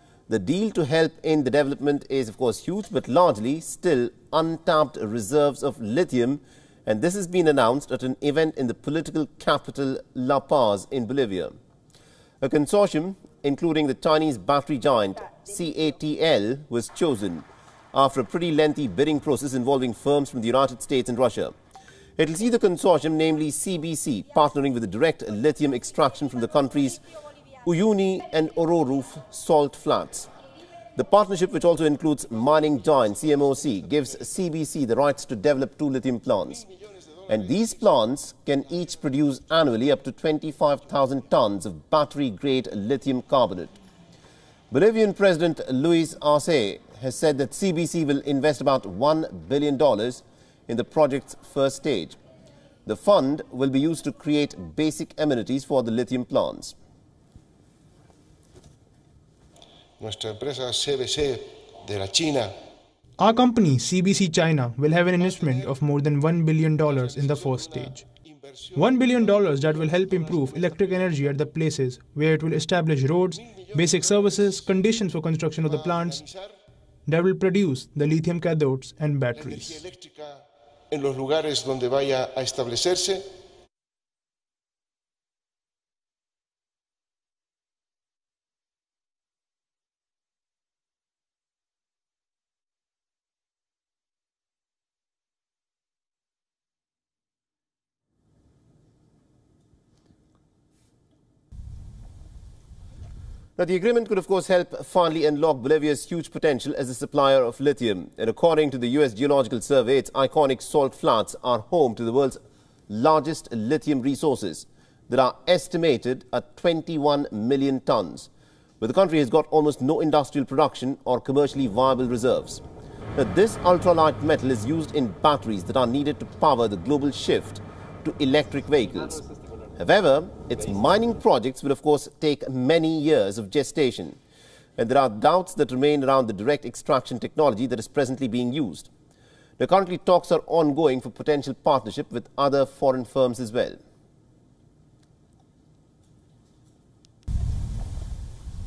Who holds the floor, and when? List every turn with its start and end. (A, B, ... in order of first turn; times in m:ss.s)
0:00.3-0:11.6 A
0:12.4-0:21.6 A
0:22.2-0:27.0 A
0:27.6-0:30.3 A
0:31.0-0:36.6 A
0:36.5-0:38.0 B
0:37.3-0:43.8 A
0:44.7-0:52.2 A
0:52.9-0:56.8 A
1:00.0-1:02.5 B
1:03.2-1:08.0 C
1:05.2-1:05.9 B
1:06.8-1:11.5 B
1:08.8-1:16.2 C
1:13.2-1:14.8 B
1:15.6-1:16.6 B
1:17.1-1:19.8 C
1:19.4-1:23.3 B
1:43.6-1:58.3 A
1:58.8-2:02.6 A
2:03.2-2:09.2 A
2:09.8-2:14.2 A
2:14.8-2:18.9 A
2:19.6-2:23.8 A